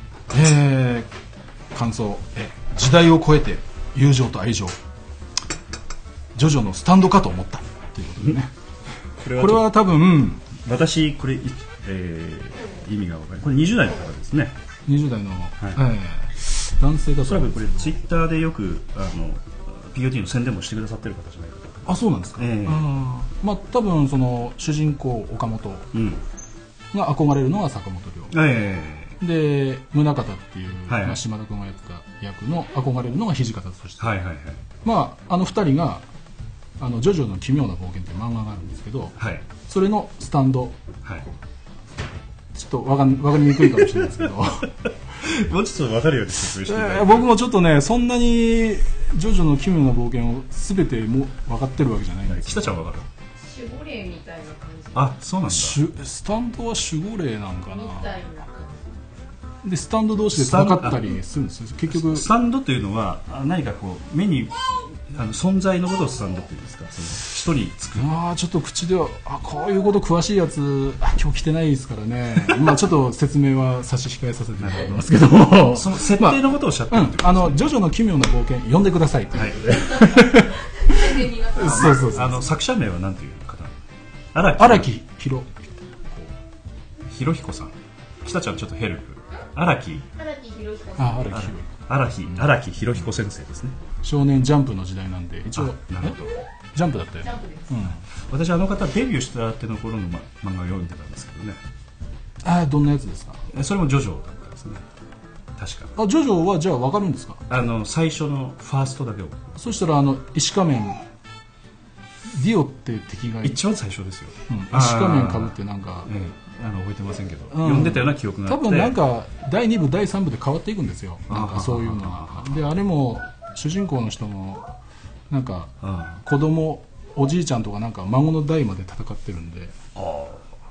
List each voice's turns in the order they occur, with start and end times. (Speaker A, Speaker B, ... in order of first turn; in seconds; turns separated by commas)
Speaker A: 0.3-1.1, Speaker A: 1.7-4.8, Speaker A: 6.4-8.5, Speaker B: 9.2-9.8, Speaker A: 9.3-10.5, Speaker B: 10.6-14.6, Speaker A: 14.9-18.0, Speaker B: 17.2-22.9, Speaker A: 21.9-25.9, Speaker B: 25.9-26.2, Speaker A: 26.9-28.4, Speaker B: 28.3-29.2, Speaker A: 29.2-34.1, Speaker B: 30.9-31.2, Speaker B: 34.0-34.6, Speaker A: 34.8-36.0, Speaker A: 36.8-40.8, Speaker B: 39.2-39.5, Speaker A: 42.5-44.7, Speaker B: 45.2-47.3, Speaker A: 46.6-52.8, Speaker B: 52.3-53.1, Speaker C: 53.5-55.1, Speaker B: 54.9-55.8, Speaker A: 55.5-58.2, Speaker C: 57.7-58.9, Speaker A: 59.6-62.3, Speaker B: 60.3-61.2, Speaker B: 61.9-68.1, Speaker A: 68.0-82.5, Speaker B: 74.6-75.1, Speaker B: 75.6-77.7, Speaker B: 79.3-80.1, Speaker C: 80.9-81.8, Speaker B: 81.5-84.9, Speaker A: 84.5-86.3, Speaker B: 87.1-90.1, Speaker C: 90.2-91.3, Speaker A: 91.0-91.7, Speaker B: 91.3-93.8, Speaker A: 94.0-96.2, Speaker B: 95.5-96.4, Speaker A: 96.7-98.0, Speaker C: 97.3-97.7, Speaker B: 98.1-101.6, Speaker A: 102.4-103.5, Speaker B: 103.5-104.8, Speaker B: 105.6-106.0, Speaker A: 106.0-107.5, Speaker B: 107.5-109.5, Speaker A: 109.6-111.0, Speaker A: 112.3-113.6, Speaker B: 113.4-119.0, Speaker A: 114.5-116.1, Speaker A: 117.5-124.7, Speaker B: 121.3-122.6, Speaker A: 125.3-129.8, Speaker B: 125.8-126.2, Speaker B: 129.9-130.5